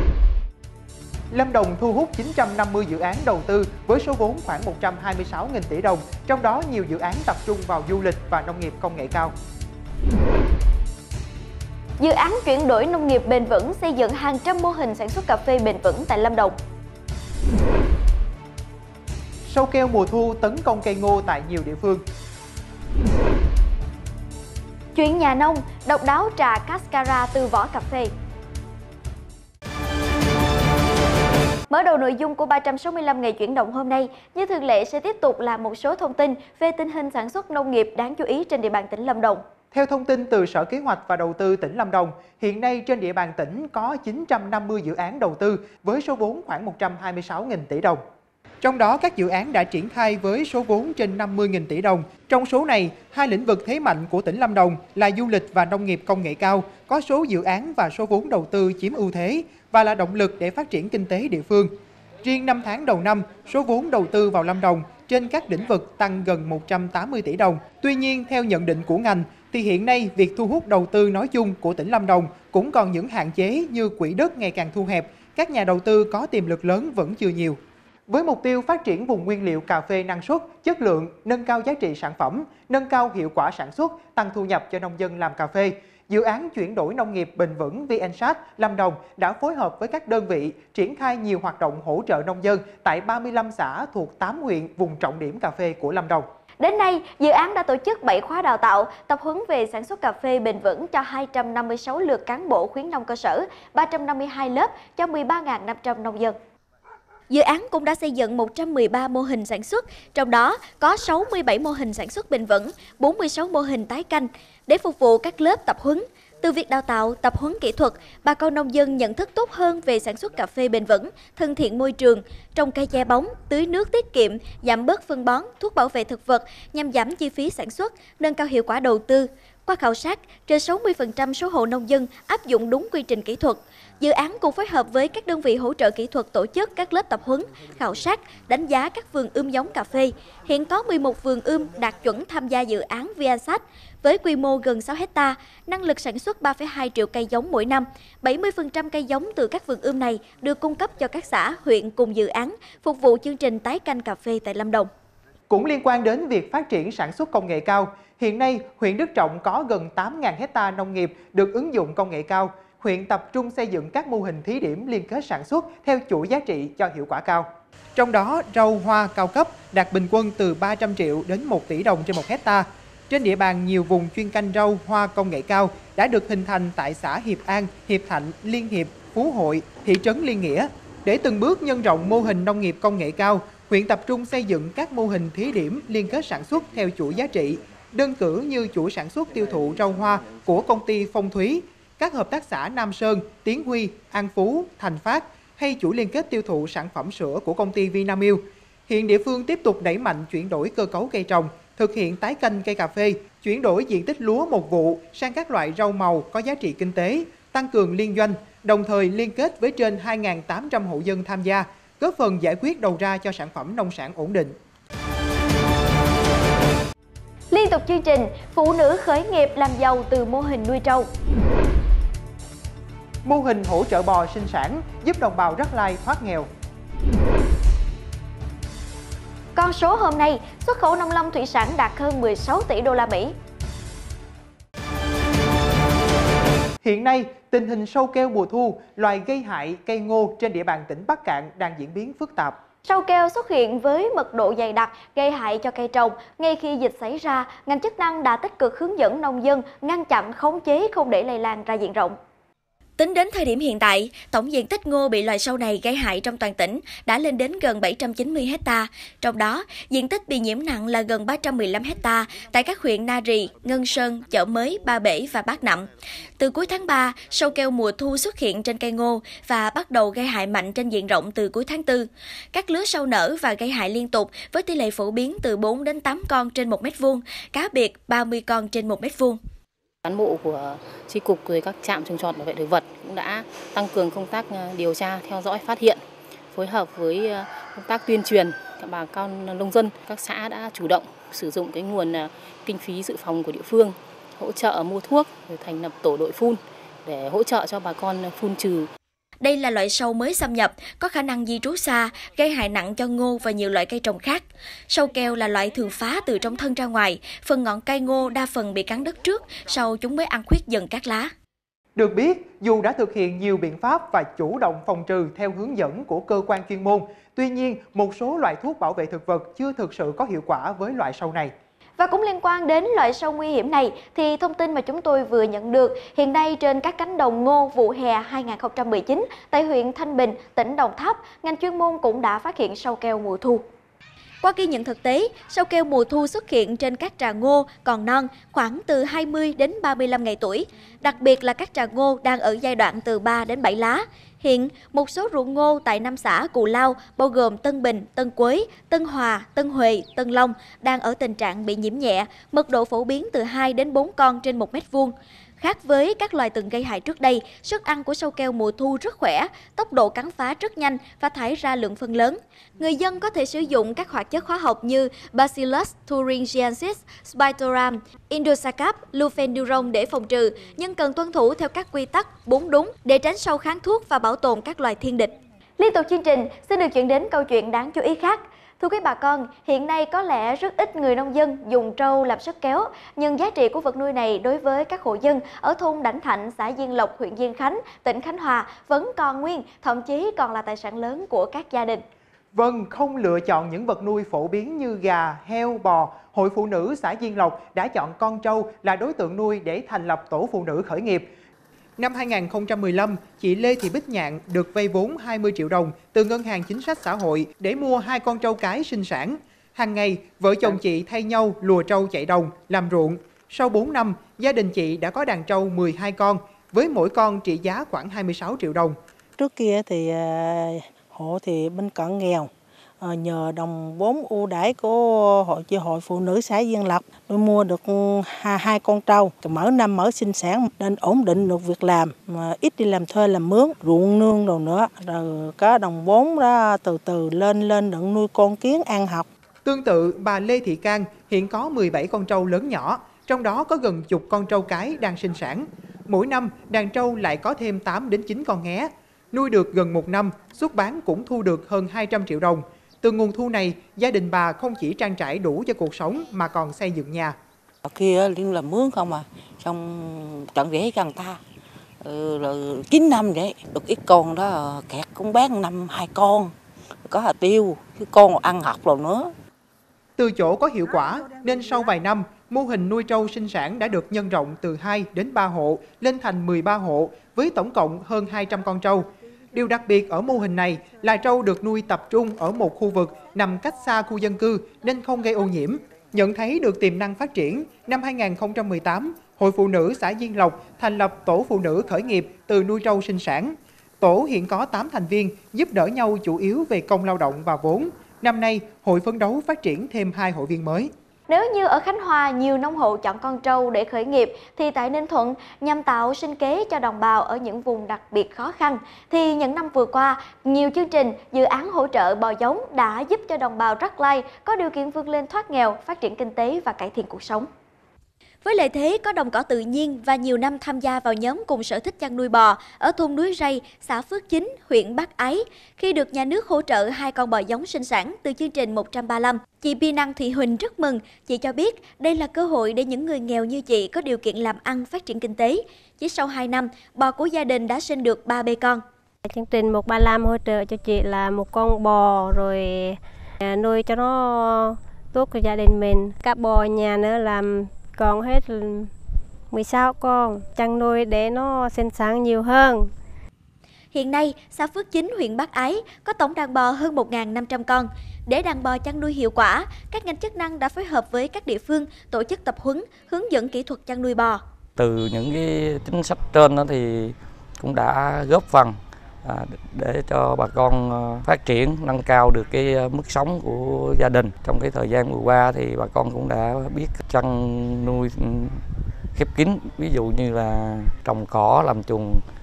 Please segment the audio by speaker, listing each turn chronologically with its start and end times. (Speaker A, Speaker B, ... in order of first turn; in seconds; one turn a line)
Speaker A: 1.3-9.3
Speaker B: 12.0-16.5
Speaker A: 19.5-22.0
Speaker B: 24.9-28.1
Speaker B: 31.7-39.4
Speaker A: 39.7-48.0
Speaker A: 48.6-61.7
Speaker A: 62.2-96.2
Speaker B: 96.6-106.3
Speaker B: 107.3-154.9
Speaker A: 155.5-214.5
Speaker B: 217.5-221.1
Speaker A: 223.2-226.5
Speaker B: 229.5-233.3
Speaker A: 236.8-242.6
Speaker B: 242.8-252.1
Speaker B: 253.0-279.4
Speaker C: 280.0-286.0
Speaker C: 286.5-298.9
Speaker B: 299.4-311.3
Speaker A: 311.9-321.5
Speaker B: 322.0-333.6
Speaker B: 334.4-392.0
Speaker A: 392.5-401.3
Speaker A: 402.0-418.9
Speaker D: 419.4-439.3
Speaker A: 439.6-457.3
Speaker E: 457.8-461.4
Speaker E: 462.0-466.5
Speaker E: 467.1-469.3
Speaker A: 470.2-500.9
Speaker B: 501.3-517.5
Speaker B: 518.4-538.8
Speaker F: 539.2-548.9
Speaker F: 549.5-552.9
Speaker B: 553.9-564.4
Speaker G: 564.8-582.2